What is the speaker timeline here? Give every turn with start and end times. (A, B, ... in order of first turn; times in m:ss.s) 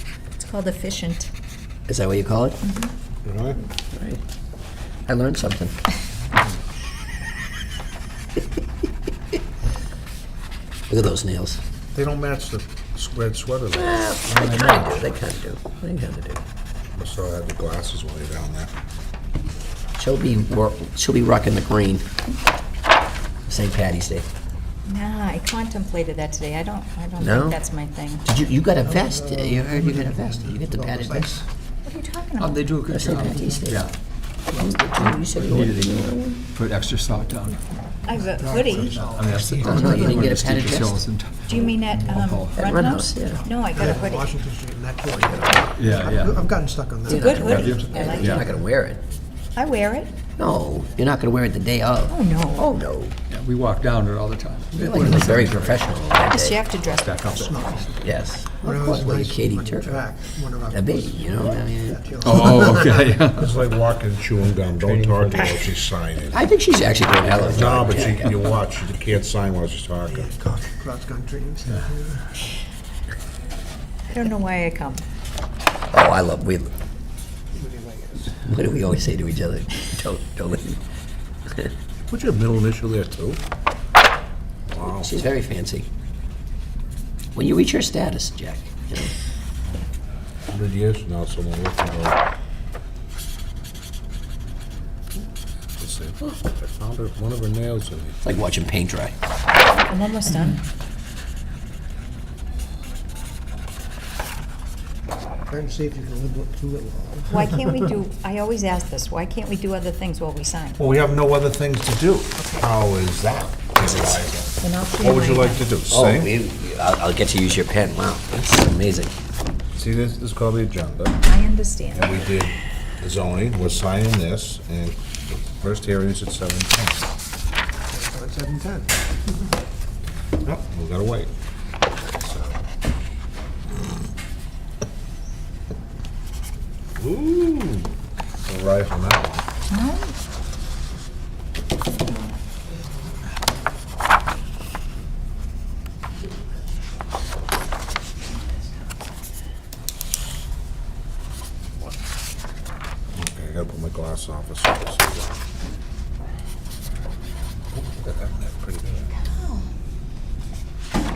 0:00.4-0:01.3 A
0:01.9-0:02.6 B
0:02.6-0:02.9 A
0:03.2-0:03.6 C
0:03.9-0:04.2 B
0:05.1-0:05.7 B
0:10.9-0:11.6 B
0:11.9-0:15.1 C
0:13.7-0:16.4 B
0:16.9-0:18.7 C
0:20.0-0:22.0 B
0:23.5-0:24.2 B
0:24.8-0:28.3 A
0:27.2-0:27.6 B
0:28.2-0:31.4 B
0:28.8-0:31.4 D
0:31.8-0:32.7 A
0:32.4-0:33.9 E
0:32.9-0:33.9 B
0:34.5-0:36.4 B
0:34.5-0:37.6 E
0:38.0-0:39.0 A
0:38.1-0:40.4 D
0:38.7-0:42.7 E
0:39.6-0:41.0 B
0:41.4-0:44.3 A
0:42.6-0:43.4 B
0:43.3-0:48.6 D
0:45.8-0:46.5 E
0:47.0-0:48.4 A
0:47.1-0:49.0 B
0:47.3-0:48.5 E
0:49.6-0:50.1 A
0:50.4-0:53.2 B
0:52.1-0:52.8 A
0:53.3-0:55.8 E
0:54.7-0:56.6 B
0:56.3-0:57.8 A
0:56.9-0:58.0 E
0:57.3-1:03.2 D
0:58.0-1:00.0 B
1:00.7-1:02.1 B
1:02.2-1:03.5 E
1:03.3-1:06.4 C
1:04.8-1:05.5 E
1:06.3-1:08.3 B
1:07.4-1:10.3 C
1:10.1-1:12.5 D
1:14.1-1:15.0 A
1:15.9-1:16.7 B
1:17.5-1:18.4 D
1:18.4-1:20.8 B
1:22.1-1:23.4 C
1:24.7-1:25.2 C
1:24.8-1:25.9 B
1:27.3-1:29.1 B
1:30.5-1:32.2 C
1:35.8-1:38.2 C
1:38.2-1:39.1 B
1:39.7-1:40.6 A
1:45.5-1:47.6 D
1:47.3-1:50.8 A
1:50.8-1:56.3 C
1:54.6-1:55.7 A
1:55.9-1:59.1 B
1:59.7-2:01.2 C
2:01.2-2:02.2 A
2:01.9-2:07.0 C
2:07.9-2:08.9 D
2:10.4-2:11.3 C
2:12.1-2:12.6 C
2:17.0-2:17.9 C
2:18.4-2:19.4 C
2:19.7-2:20.1 A
2:33.1-2:35.4 C
2:37.7-2:39.1 C
2:39.2-2:39.6 A